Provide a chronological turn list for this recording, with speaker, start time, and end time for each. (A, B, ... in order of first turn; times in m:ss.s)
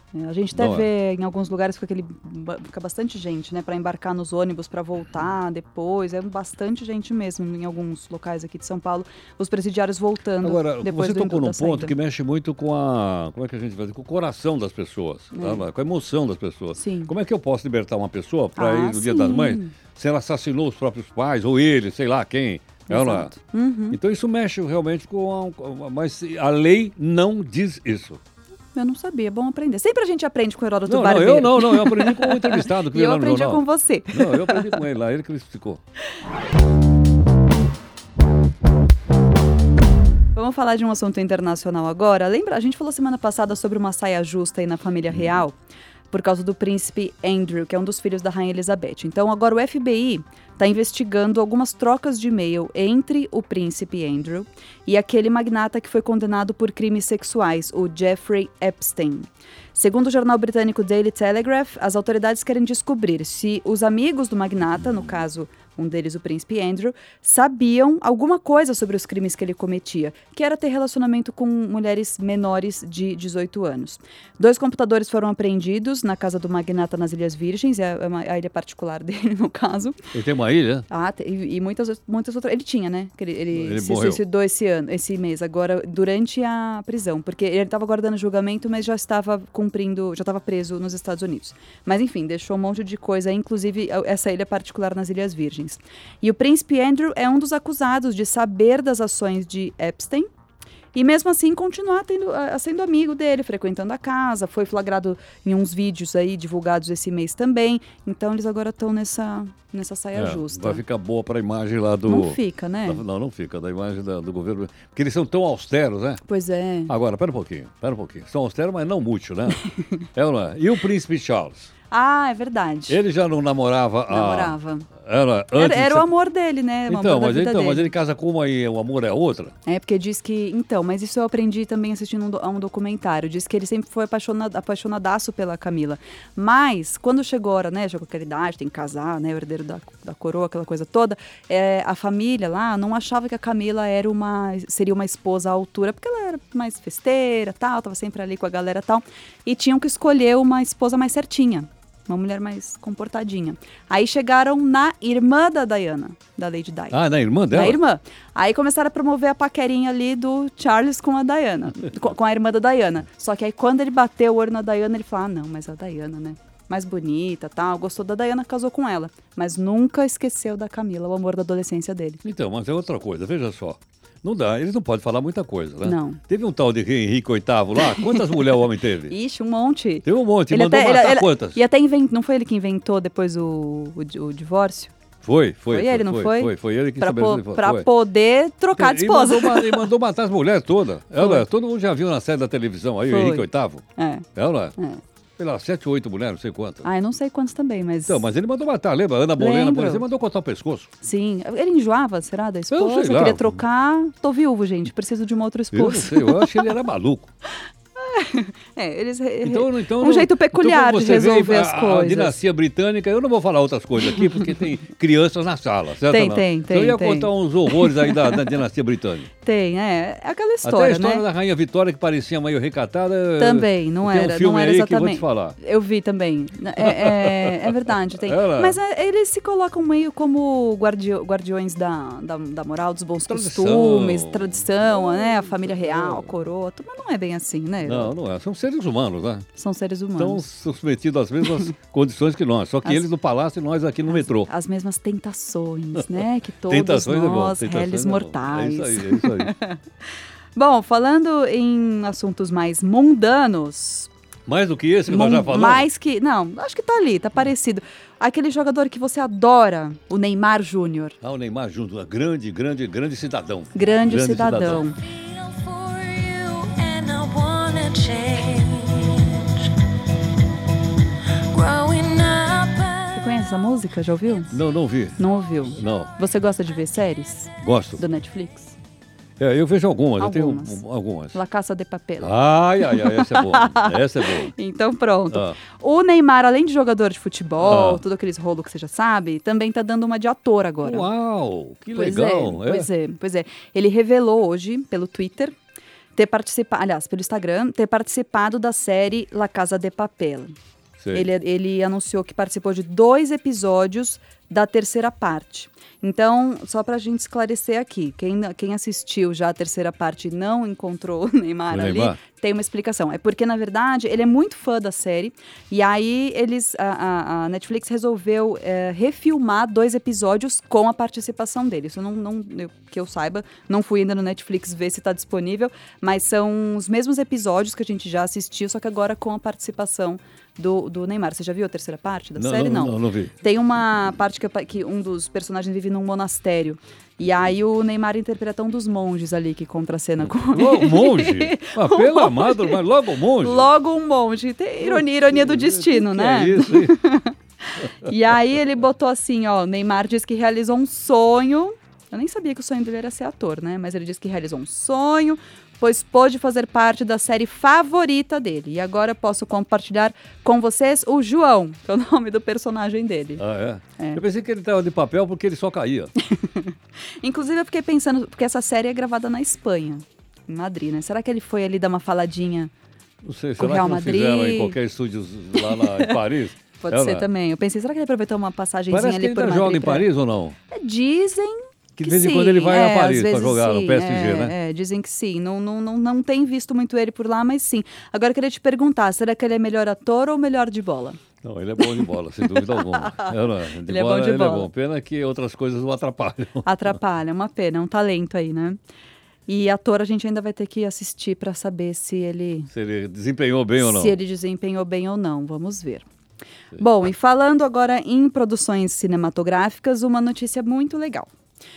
0:00.1-0:12.0 A
0:00.5-0:00.9 B
0:10.4-0:23.3 B
0:15.3-0:15.7 A
0:16.8-0:17.1 A
0:18.6-0:19.7 A
0:22.9-0:24.0 A
0:23.9-0:28.2 B
0:28.7-0:34.8 A
0:30.9-0:35.8 B
0:40.3-0:45.6 A
0:46.1-1:20.0 A
1:20.1-1:20.9 B
1:20.9-1:40.3 A
1:23.5-1:24.2 B
1:40.9-1:50.8 A
1:50.2-1:56.2 B
1:52.1-1:53.0 A
1:56.3-1:56.9 A
1:56.9-1:59.6 B
2:00.2-2:01.7 B
2:01.9-2:03.0 A
2:02.9-2:06.1 B
2:04.1-2:04.9 A
2:05.6-2:07.9 A
2:06.9-2:09.5 B
2:09.6-2:52.2 A
2:36.9-2:37.8 B
2:52.2-2:59.2 B
2:55.8-2:56.2 A
2:57.8-2:58.4 A
2:59.1-3:04.9 A
3:00.0-3:01.6 B
3:05.2-3:07.9 B
3:05.7-3:09.9 A
3:08.8-3:13.8 B
3:11.2-3:11.5 A
3:13.1-3:14.3 A
3:14.4-3:14.8 B
3:15.4-3:16.9 B
3:16.8-3:18.2 A
3:18.1-3:20.9 B
3:19.4-3:20.0 A
3:21.0-3:26.7 A
3:22.7-3:23.6 B
3:25.7-3:27.3 B
3:28.0-3:32.4 A
3:29.4-3:39.3 B
3:36.1-3:38.5 A
3:39.4-3:41.3 A
3:40.6-3:45.6 B
3:43.4-3:58.2 A
3:46.8-3:48.8 B
3:53.3-3:56.3 B
3:57.8-3:59.5 B
3:59.6-4:00.4 A
4:00.2-4:04.5 B
4:04.1-4:09.8 A
4:06.0-4:09.6 B
4:10.6-4:14.1 A
4:14.5-4:15.9 B
4:15.1-4:21.2 A
4:21.2-4:24.9 B
4:23.7-4:25.0 A
4:25.2-4:29.7 C
4:31.3-4:33.2 C
4:33.1-4:34.6 A
4:34.5-4:35.2 B
4:35.2-4:38.8 A
4:35.8-4:36.1 B
4:37.6-4:38.0 B
4:39.4-4:41.4 B
4:40.2-4:40.8 A
4:41.3-4:44.0 A
4:42.2-4:44.5 B
4:44.5-4:51.1 A
4:45.3-4:45.6 B
4:47.6-4:48.0 B
4:50.8-4:52.9 B
4:51.9-4:55.5 A
4:56.2-5:00.5 A
5:01.0-5:01.3 B
5:01.1-5:42.8 A
5:11.7-5:12.2 B
5:32.4-5:33.3 B
5:40.4-5:43.7 B
5:43.4-5:47.4 A
5:44.8-5:47.0 B
5:48.0-6:03.4 A
6:03.4-6:06.1 B
6:06.3-6:12.7 A
6:13.2-6:17.3 B
6:13.6-6:14.8 A
6:15.6-6:16.2 A
6:16.8-6:20.1 A
6:18.9-6:20.6 B
6:20.7-6:31.2 A
6:22.0-6:24.5 B
6:31.4-6:36.7 B
6:32.0-6:33.3 A
6:33.8-6:34.7 A
6:36.6-6:38.8 A
6:39.5-6:42.7 A
6:42.7-6:44.2 B
6:43.8-6:46.1 A
6:46.8-6:51.3 A